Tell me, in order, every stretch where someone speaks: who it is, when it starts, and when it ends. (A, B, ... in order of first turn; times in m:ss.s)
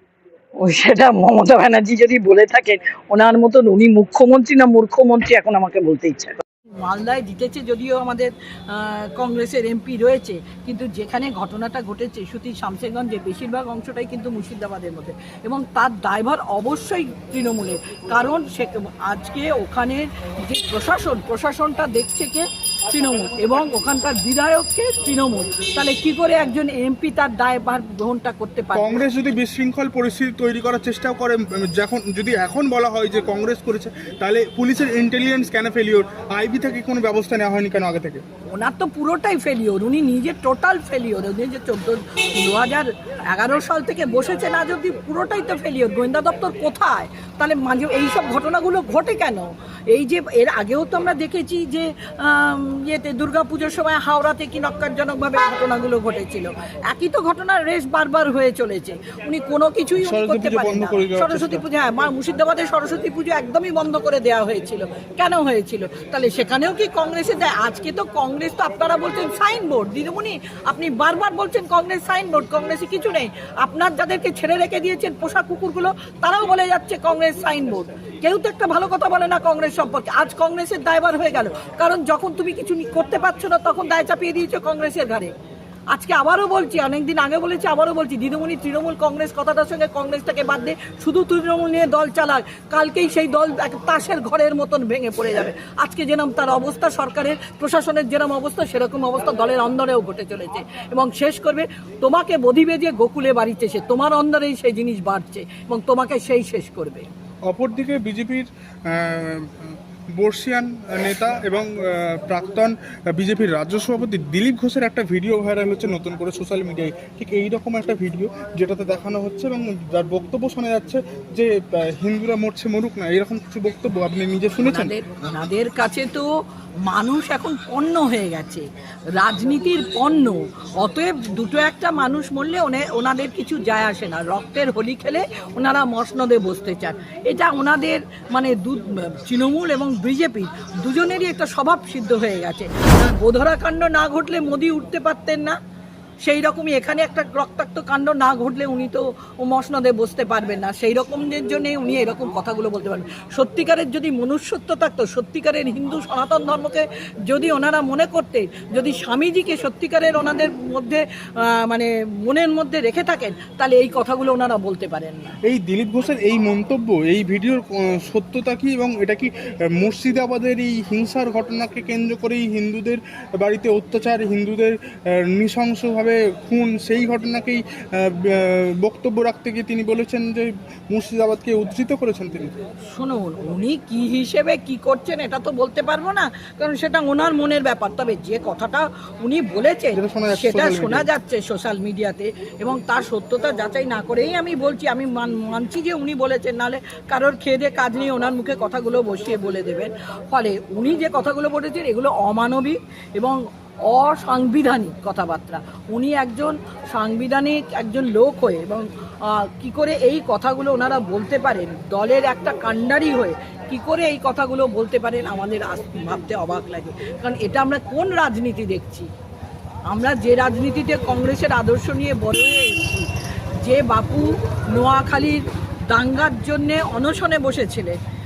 0:00.6-0:29.0 A
0:28.8-0:38.2 B
0:38.5-1:25.3 A
1:00.0-1:01.6 B
1:25.9-1:47.1 A
1:47.5-2:04.9 B
2:04.6-2:06.3 A
2:06.8-2:25.6 A
2:26.2-2:45.4 A
2:45.4-3:02.5 B
3:02.9-3:39.1 A
3:09.9-3:11.1 B
3:39.9-3:43.1 A
3:43.6-3:48.0 A